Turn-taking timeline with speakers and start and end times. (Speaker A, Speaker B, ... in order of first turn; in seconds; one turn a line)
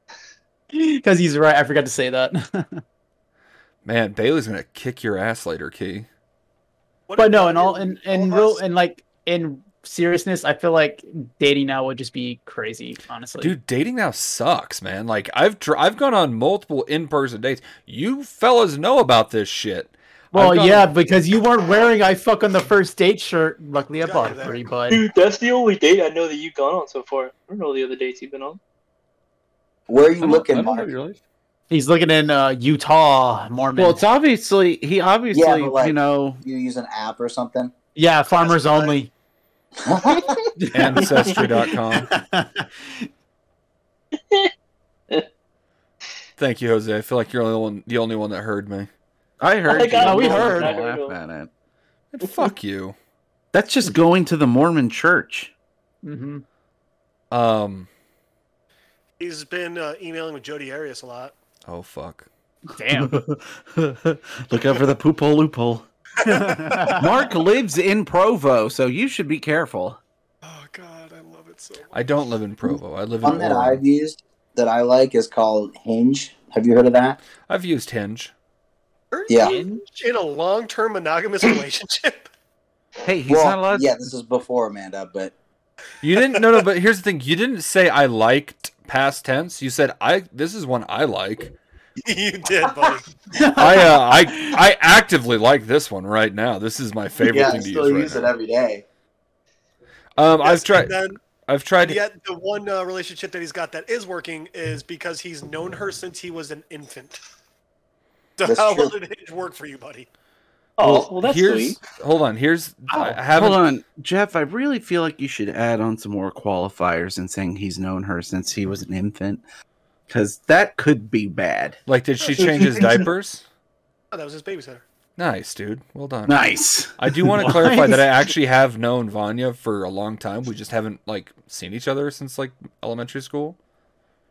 Speaker A: 0.7-2.8
Speaker B: 3.9-6.1
Speaker C: 7.1-8.6
Speaker A: 7.2-13.6
Speaker B: 13.4-20.9
Speaker A: 20.3-25.0
Speaker C: 24.0-24.6
Speaker D: 24.9-28.6
Speaker E: 29.9-30.9
Speaker F: 30.2-30.9
Speaker B: 30.2-31.2
Speaker A: 31.7-34.0
Speaker F: 33.8-36.4
Speaker E: 35.3-37.7
Speaker A: 38.0-39.1
Speaker C: 38.3-39.0
Speaker E: 39.8-40.5
Speaker A: 40.6-43.1
Speaker B: 40.7-42.1
Speaker D: 41.0-41.4
Speaker B: 46.4-48.9
Speaker F: 49.4-51.5
Speaker D: 49.7-51.2
Speaker A: 50.0-50.7
Speaker B: 52.1-53.0
Speaker F: 53.5-55.5
Speaker A: 56.0-56.4
Speaker B: 57.3-57.9
Speaker C: 59.2-61.4
Speaker B: 61.7-62.3
Speaker A: 62.7-63.2
Speaker F: 62.9-65.9
Speaker C: 66.2-67.1
Speaker A: 66.2-67.1
Speaker F: 66.9-70.0
Speaker C: 70.4-72.3
Speaker B: 71.9-73.8
Speaker E: 73.2-77.2
Speaker B: 77.4-78.3
Speaker C: 79.1-82.3
Speaker E: 79.3-79.6
Speaker A: 79.5-79.8
Speaker F: 83.0-84.0
Speaker E: 83.3-85.3
Speaker B: 86.0-91.5
Speaker C: 92.0-93.0
Speaker A: 93.3-94.6
Speaker B: 93.6-98.3
Speaker E: 97.2-98.8
Speaker B: 100.2-102.0
Speaker C: 100.4-101.2
Speaker C: 101.8-107.2
Speaker C: 108.4-110.1
Speaker E: 108.5-109.0
Speaker D: 110.8-111.8
Speaker B: 110.8-113.7
Speaker F: 112.9-119.4
Speaker F: 120.1-121.8
Speaker B: 121.9-123.4
Speaker C: 124.1-124.8
Speaker B: 125.2-126.4
Speaker F: 126.3-127.5
Speaker B: 127.0-133.6
Speaker A: 127.4-128.1